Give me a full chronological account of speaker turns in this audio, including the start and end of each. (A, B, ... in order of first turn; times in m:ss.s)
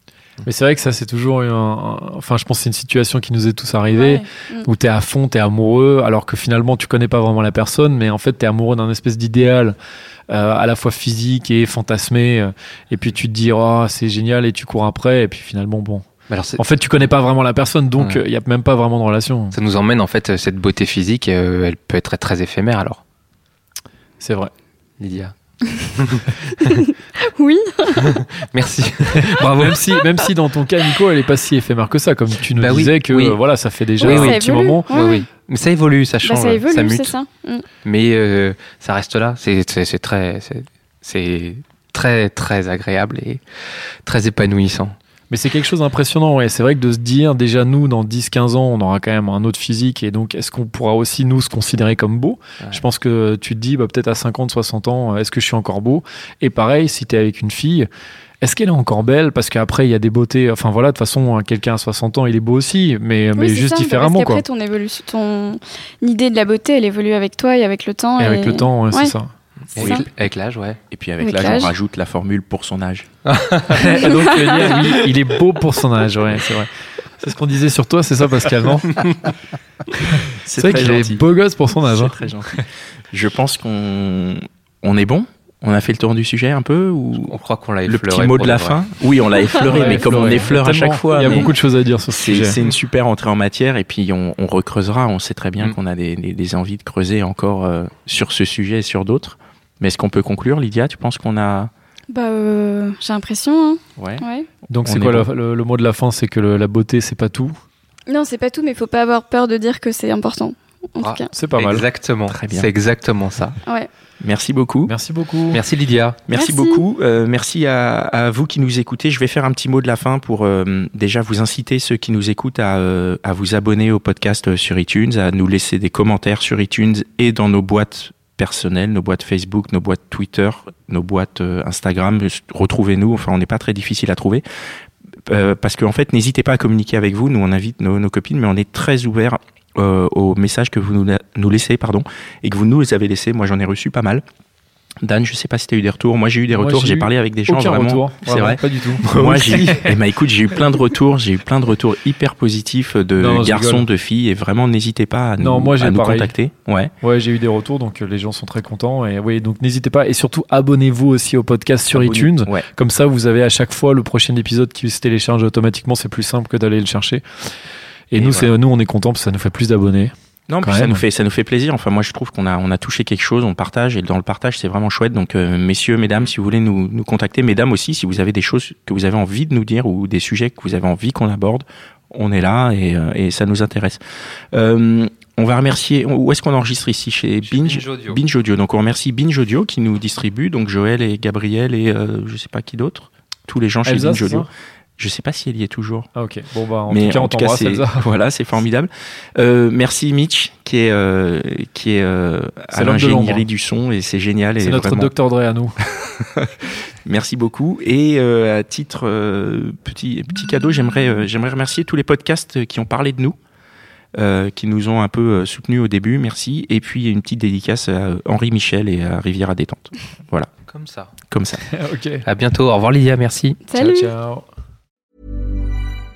0:00.4-0:09.8 A
0:03.9-0:04.7 B
0:10.3-0:19.6 A
0:16.3-0:16.6 C
0:18.0-0:18.2 C
0:19.5-0:23.0 C
0:24.2-0:24.5 A
0:25.0-0:25.3 C
0:26.0-0:26.8 C
0:26.6-0:28.2 B
0:28.1-0:30.0 C
0:29.2-0:34.9 A
0:32.6-0:33.4 C
0:34.0-0:35.3 B
0:34.0-0:37.1 C
0:36.2-0:37.6 B
0:37.8-0:43.4 C
0:44.0-0:45.0 C
0:45.3-0:57.9 A
0:58.4-1:04.4 A
1:03.4-1:09.2 B
1:08.2-1:09.3 A
1:09.7-1:10.8 C
1:09.8-1:10.0 B
1:09.8-1:10.1 D
1:10.9-1:13.1 D
1:11.2-1:11.7 B
1:13.2-1:15.0 C
1:13.7-1:19.1 A
1:13.8-1:14.1 B
1:20.4-1:21.3 D
1:20.6-1:22.2 A
1:21.8-1:31.5 D
1:27.2-1:28.8 C
1:29.7-1:32.6 A
1:29.8-1:30.2 C
1:32.1-1:41.7 D
1:42.1-1:44.5 B
1:44.0-1:44.2 D
1:44.7-1:47.6 A
1:44.9-1:45.3 C
1:48.1-1:51.3 B
1:51.0-1:53.6 C
1:51.3-1:51.8 A
1:52.3-1:52.7 D
1:54.2-1:54.9 D
1:54.9-1:55.6 A
1:55.5-1:56.2 C
1:56.3-2:14.4 D
1:56.3-1:56.8 B
2:15.3-2:24.2 D
2:25.0-2:36.9 D
2:26.6-2:30.0 A
2:29.1-2:29.7 C
2:33.2-2:33.8 A
2:35.4-2:36.3 A
2:37.0-2:47.2 A
2:41.9-2:42.7 D
2:48.1-2:50.1 A
2:48.2-2:48.5 D
2:50.5-3:04.0 D
2:50.6-2:51.0 A
3:04.5-3:14.5 D
3:07.5-3:08.2 C
3:13.8-3:14.5 A
3:15.0-3:16.1 D
3:16.2-3:18.1 A
3:16.9-3:25.1 D
3:22.7-3:23.4 A
3:24.6-3:25.8 A
3:25.9-3:33.4 D
3:34.2-3:40.5 D
3:40.7-3:41.1 C
3:41.3-3:41.6 D
3:41.7-3:42.2 A
3:42.2-3:43.6 C
3:43.7-3:44.1 B
3:43.7-3:44.4 A